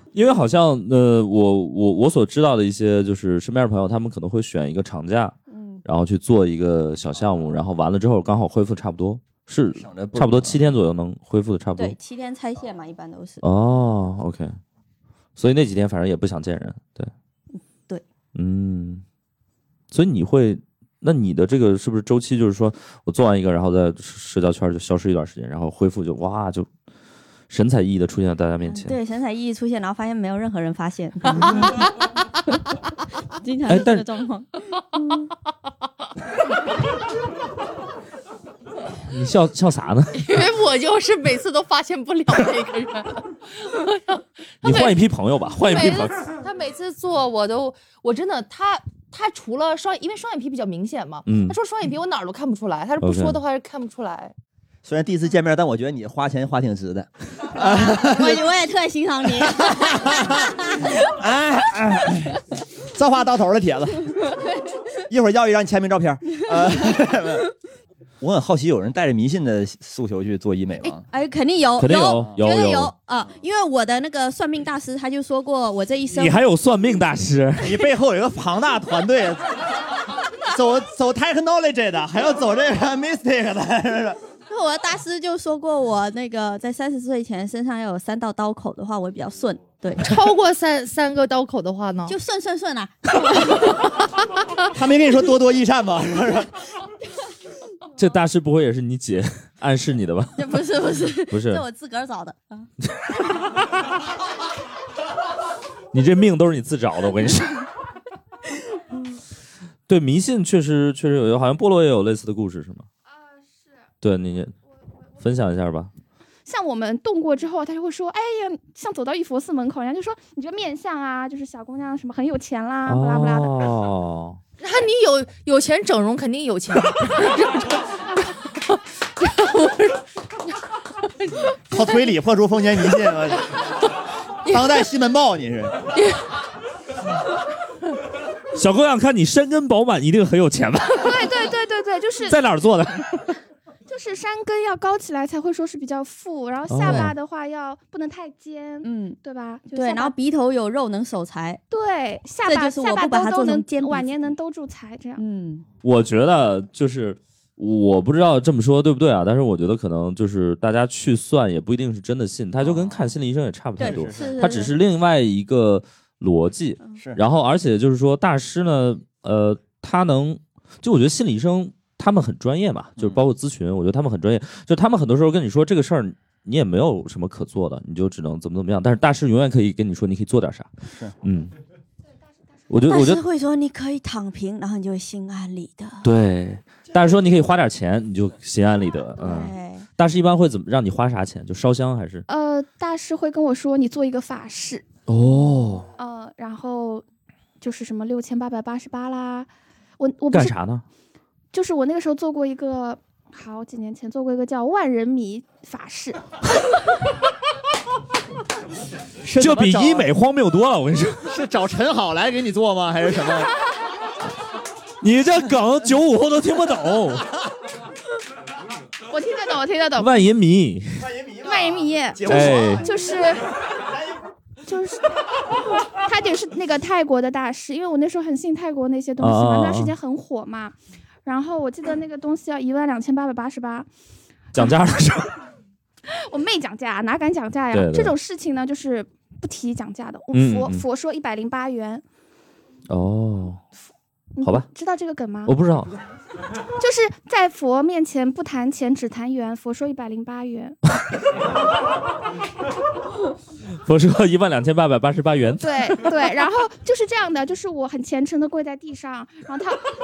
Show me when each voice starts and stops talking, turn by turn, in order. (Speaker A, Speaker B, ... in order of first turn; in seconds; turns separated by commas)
Speaker A: 0.1-12.0, Speaker B: 5.5-5.8, Speaker C: 9.7-10.7, Speaker B: 11.8-13.4, Speaker A: 13.4-14.6, Speaker A: 15.4-17.1, Speaker B: 17.5-18.0, Speaker A: 18.3-19.0, Speaker A: 19.9-26.7, Speaker A: 27.5-28.9, Speaker B: 28.6-31.9, Speaker B: 33.3-35.3, Speaker A: 33.7-34.0, Speaker A: 39.1-40.3, Speaker D: 40.1-54.3, Speaker A: 44.6-46.3, Speaker A: 51.3-51.5, Speaker A: 53.0-53.4, Speaker C: 54.8-58.5, Speaker B: 57.5-60.9, Speaker C: 59.3-64.3, Speaker C: 65.1-67.5, Speaker C: 68.2-71.0, Speaker B: 71.0-76.4, Speaker A: 71.8-72.9, Speaker A: 76.1-77.8, Speaker C: 77.6-79.6, Speaker C: 80.4-84.2, Speaker B: 84.5-90.1, Speaker D: 90.0-92.1, Speaker B: 92.0-93.9, Speaker C: 94.7-96.5, Speaker A: 98.0-100.4, Speaker B: 100.4-102.7, Speaker A: 101.3-101.6, Speaker A: 102.8-103.6, Speaker A: 105.9-107.7, Speaker A: 109.9-112.8, Speaker A: 114.0-114.5, Speaker A: 115.2-115.9, Speaker E: 116.5-123.5, Speaker A: 122.8-124.4, Speaker D: 124.6-130.0, Speaker D: 131.2-131.9, Speaker C: 131.7-133.5, Speaker D: 134.4-134.7, Speaker C: 134.4-135.9, Speaker D: 135.9-136.2, Speaker A: 138.5-141.4, Speaker E: 140.9-142.4, Speaker A: 142.3-143.3, Speaker E: 143.9-150.1, Speaker A: 146.7-147.1, Speaker B: 148.8-149.2, Speaker B: 149.7-151.6, Speaker E: 151.7-155.2, Speaker B: 152.4-154.3, Speaker B: 155.2-155.6, Speaker A: 155.8-180.7, Speaker C: 162.6-163.1, Speaker C: 163.8-164.5, Speaker B: 163.8-164.7, Speaker A: 181.2-181.5, Speaker A: 182.7-183.2, Speaker B: 182.8-186.1, Speaker A: 186.0-192.2, Speaker B: 189.2-189.9, Speaker E: 192.3-194.9, Speaker A: 195.1-195.9, Speaker E: 196.0-197.0, Speaker E: 197.6-200.5, Speaker A: 200.3-200.8, Speaker E: 201.5-206.2, Speaker C: 209.2-210.1, Speaker A: 209.3-211.3, Speaker C: 211.2-213.5, Speaker A: 215.0-217.3, Speaker E: 219.1-220.1, Speaker A: 219.9-221.1, Speaker C: 221.0-222.8, Speaker E: 221.4-223.4, Speaker A: 222.2-222.8, Speaker E: 224.6-225.0, Speaker E: 226.0-233.9, Speaker A: 229.2-229.9, Speaker A: 234.5-235.3, Speaker E: 236.1-242.0, Speaker A: 237.7-238.1, Speaker A: 240.3-240.8, Speaker A: 242.9-243.6, Speaker E: 244.4-245.5, Speaker A: 244.4-244.7, Speaker A: 245.4-245.9, Speaker E: 246.8-250.8, Speaker A: 253.8-256.1, Speaker E: 255.6-259.8